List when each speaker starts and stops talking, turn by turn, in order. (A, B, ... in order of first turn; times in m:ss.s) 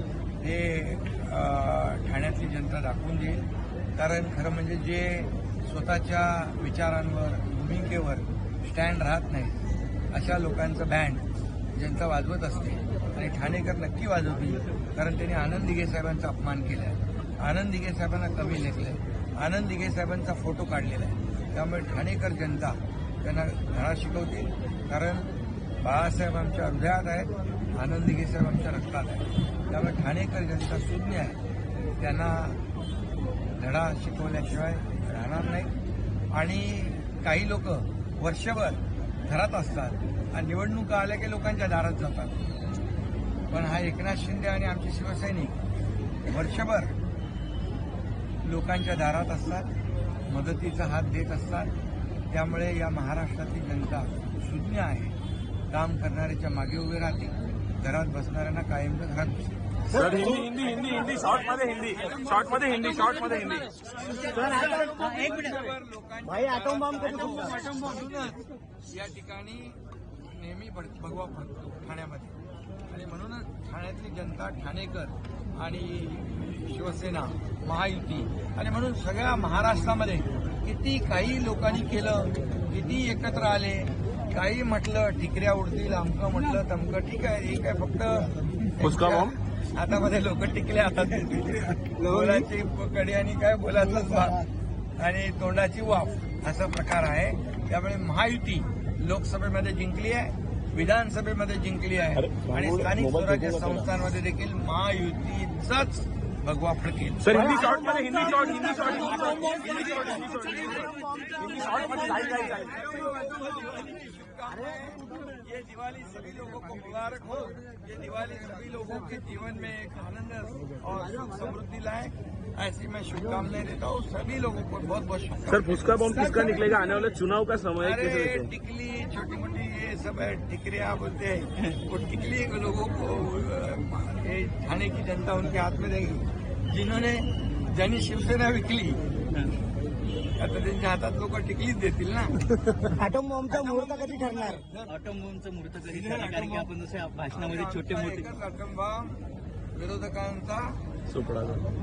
0:00.4-0:09.6 A
0:10.1-0:31.4 A
0:32.0-0:32.6 A
0:33.6-0:35.7 A
0:36.3-0:42.4 A
0:43.5-0:45.6 A
0:46.2-0:46.9 A
0:48.4-0:49.7 A
0:50.3-0:51.7 A
0:52.3-0:55.1 A
0:55.7-0:59.5 A
0:59.9-1:03.7 B
1:00.1-1:00.5 C
1:03.9-1:12.4 A
1:04.3-1:05.6 D
1:04.3-1:05.1 C
1:06.3-1:07.7 C
1:12.9-1:34.4 A
1:28.8-1:29.4 B
1:35.0-1:47.4 A
1:42.2-1:43.9 B
1:47.2-1:53.1 B
1:47.3-1:52.6 C
1:49.6-1:50.0 A
1:52.2-2:06.1 A
1:54.7-1:55.2 C
2:05.5-2:08.5 B
2:07.8-2:19.0 A
2:20.4-2:22.4 A
2:23.0-2:24.6 C
2:23.5-2:24.9 A
2:24.9-2:28.3 D
2:25.8-2:26.7 A
2:27.3-2:29.2 A
2:29.7-2:30.8 A
2:31.1-2:31.6 B